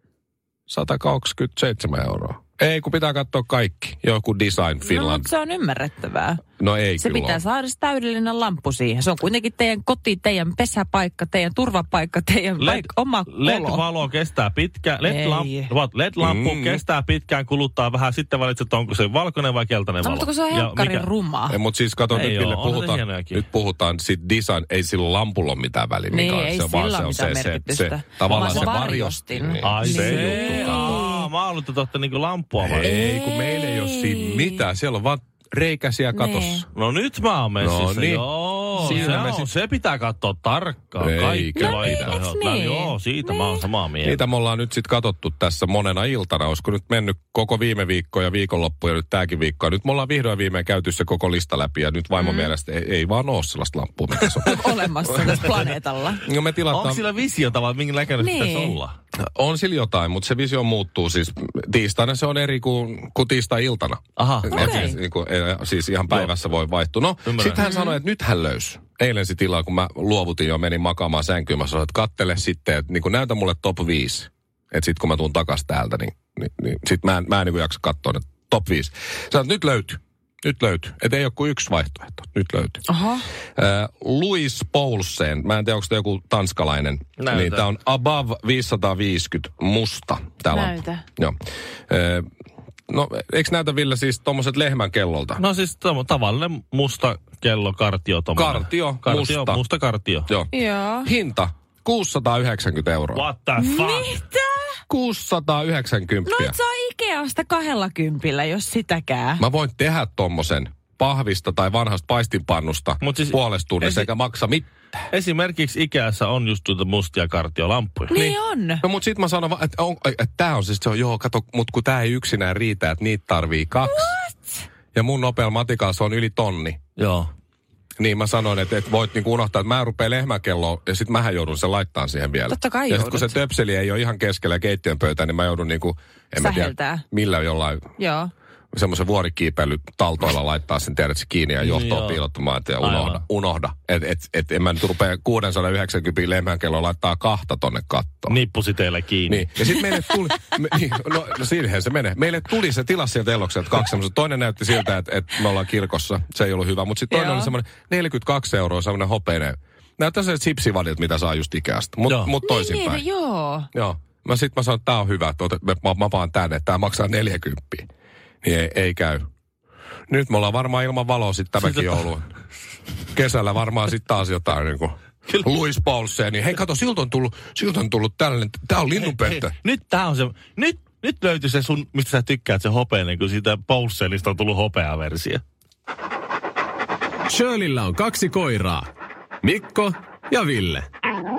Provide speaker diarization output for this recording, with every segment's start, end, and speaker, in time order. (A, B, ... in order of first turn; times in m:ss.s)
0:00.7-0:05.3 A
0:04.8-0:06.4 B
0:06.6-0:07.4 A
0:07.0-0:13.8 B
0:12.6-0:21.1 C
0:15.0-0:15.7 B
0:16.2-0:16.8 A
0:20.0-0:21.6 B
0:21.5-0:31.0 A
0:22.1-0:23.4 C
0:26.1-0:31.2 B
0:28.3-0:28.8 C
0:29.6-0:32.9 C
0:32.6-0:36.7 A
0:32.8-0:34.6 B
0:36.1-0:36.6 B
0:36.7-0:44.2 C
0:37.6-0:39.5 A
0:38.8-0:39.2 B
0:41.0-0:42.2 A
0:41.6-0:43.6 B
0:44.0-0:55.6 A
0:52.2-0:52.5 B
0:54.4-0:56.2 B
0:56.2-0:57.0 A
0:56.7-0:59.0 C
0:58.2-0:58.8 B
0:59.2-1:22.8 A
1:04.2-1:04.9 C
1:04.5-1:05.0 B
1:07.2-1:07.6 C
1:07.6-1:08.0 B
1:22.9-1:23.2 B
1:23.6-1:31.4 A
1:27.2-1:27.7 C
1:30.5-1:31.0 B
1:31.9-1:32.3 A
1:32.9-1:35.4 A
1:35.4-1:40.3 C
1:38.4-1:39.6 A
1:40.3-1:40.5 A
1:40.5-1:41.1 B
1:41.0-1:43.2 A
1:43.1-1:44.1 C
1:43.6-1:44.8 B
1:44.9-1:46.6 A
1:46.2-1:49.4 B
1:49.4-1:54.7 A
1:53.0-1:54.1 C
1:55.1-1:58.1 C
1:58.1-1:58.8 B
1:58.1-2:04.2 A
2:03.8-2:04.6 B
2:04.9-2:06.8 A
2:07.0-2:07.3 C
2:08.0-2:17.9 A
2:12.5-2:13.3 B
2:16.4-2:17.0 B
2:18.0-2:18.3 B
2:18.7-2:28.4 A
2:21.6-2:22.2 C
2:22.8-2:23.2 C
2:28.3-2:29.5 C
2:29.3-2:43.0 A
2:37.1-2:37.5 B
2:42.4-2:43.7 B
2:43.7-2:47.9 A
2:48.4-2:49.2 A
2:50.1-2:52.3 A
2:51.6-2:52.1 C
2:53.1-2:59.5 A
2:58.9-3:05.4 C
3:07.3-3:08.9 D
3:09.4-3:10.9 D